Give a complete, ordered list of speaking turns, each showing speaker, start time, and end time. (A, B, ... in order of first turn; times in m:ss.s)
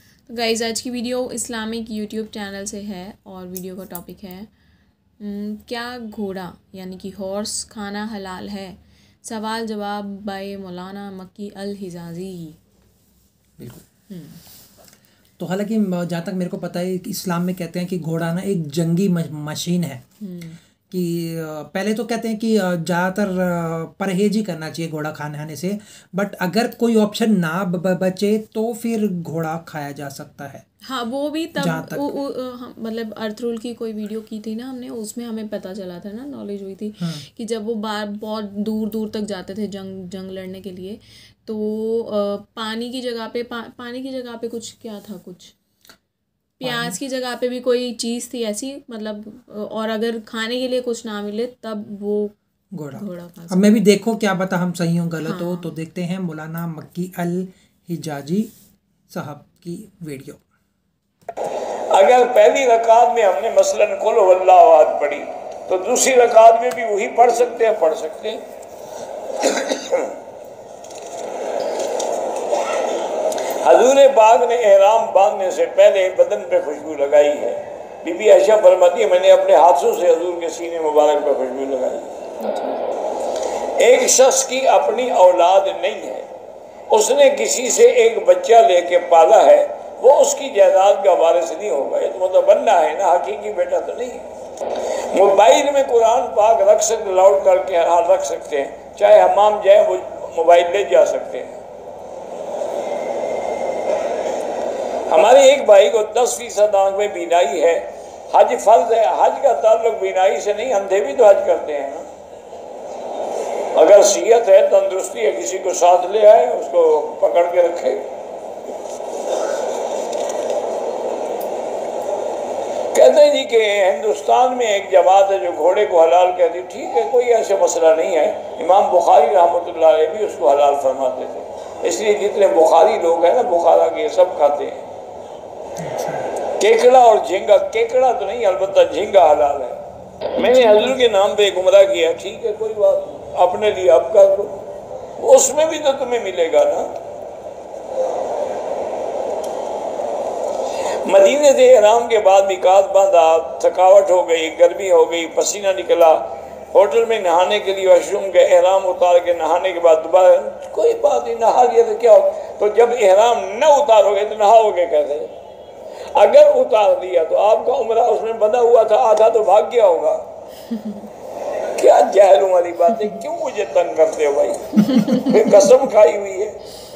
0:00.3-0:04.5 A
0:05.2-0:12.6 A
0:13.6-0:13.8 B
0:14.1-0:14.4 A
0:15.4-0:20.0 B
0:20.2-0:20.6 A
0:20.9-0:30.6 B
0:30.9-0:45.5 A
0:31.6-0:32.2 B
0:37.0-0:37.2 B
0:46.6-0:52.3 A
0:46.6-0:47.0 B
0:52.7-0:58.5 B
0:52.9-0:53.7 A
0:55.2-0:55.7 A
0:59.1-1:00.4 B
1:01.9-1:08.4 C
1:09.4-1:10.2 C
1:13.6-1:22.2 C
1:22.4-1:22.8 A
1:23.8-1:26.3 C
1:26.9-1:34.3 C
1:34.8-1:41.6 C
1:45.1-1:52.1 C
1:53.7-1:58.1 C
2:02.9-2:14.8 C
2:15.8-2:16.3 B
2:16.6-2:19.8 C
2:20.4-2:24.6 C
2:20.4-2:21.0 A
2:25.2-2:26.9 C
2:31.0-2:45.3 C
2:46.1-2:50.2 C
2:51.8-2:56.6 C
2:54.8-2:55.3 A